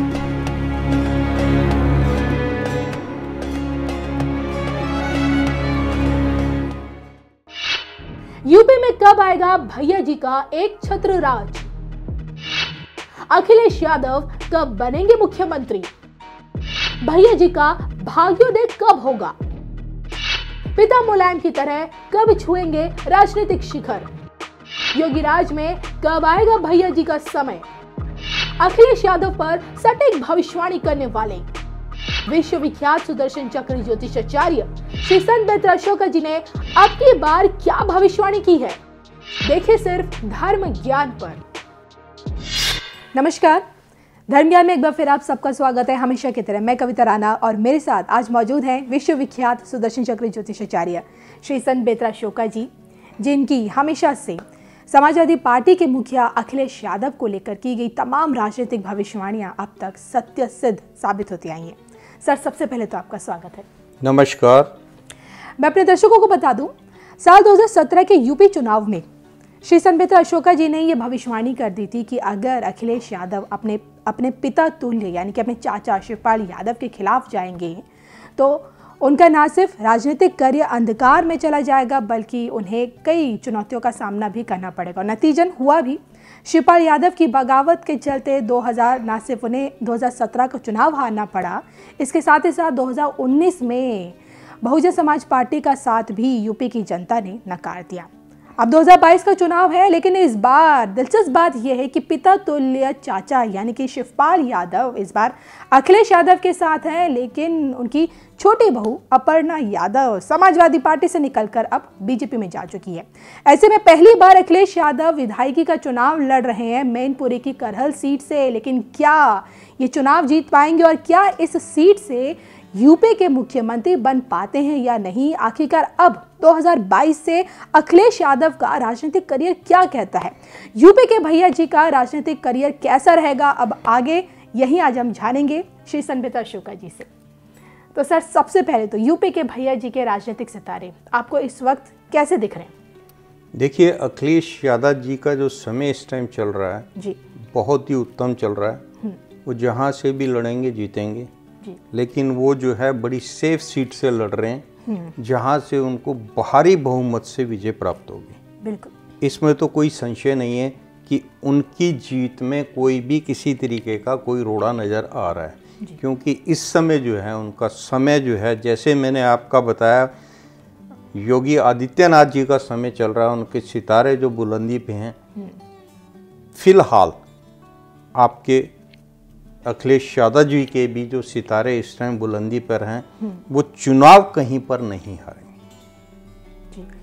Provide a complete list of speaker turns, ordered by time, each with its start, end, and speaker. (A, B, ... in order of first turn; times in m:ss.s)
0:08.4-0:11.7 A
0:13.3-0:15.9 A
0:17.0-0:19.4 A
0:20.8-0:24.1 A
0:24.9-0:27.6 A
0:28.6-0:31.5 A
0:32.2-0:38.8 A
0:39.4-0:41.4 A
0:43.1-0:43.6 A
0:44.3-1:03.6 A
1:04.0-1:04.7 B
1:05.6-1:09.0 A
1:09.6-1:17.8 A
1:18.4-2:17.1 A
2:17.9-2:22.7 A
2:23.5-2:26.9 B
2:27.5-2:28.8 B
2:29.4-2:31.3 B
2:31.9-2:34.6 B
2:34.8-2:35.1 A
2:35.2-2:38.4 B
2:38.6-2:39.0 A
2:39.2-2:50.1 B
2:51.1-2:55.2 B
2:56.5-2:57.2 B
2:58.1-2:58.7 B
2:59.6-3:05.5 B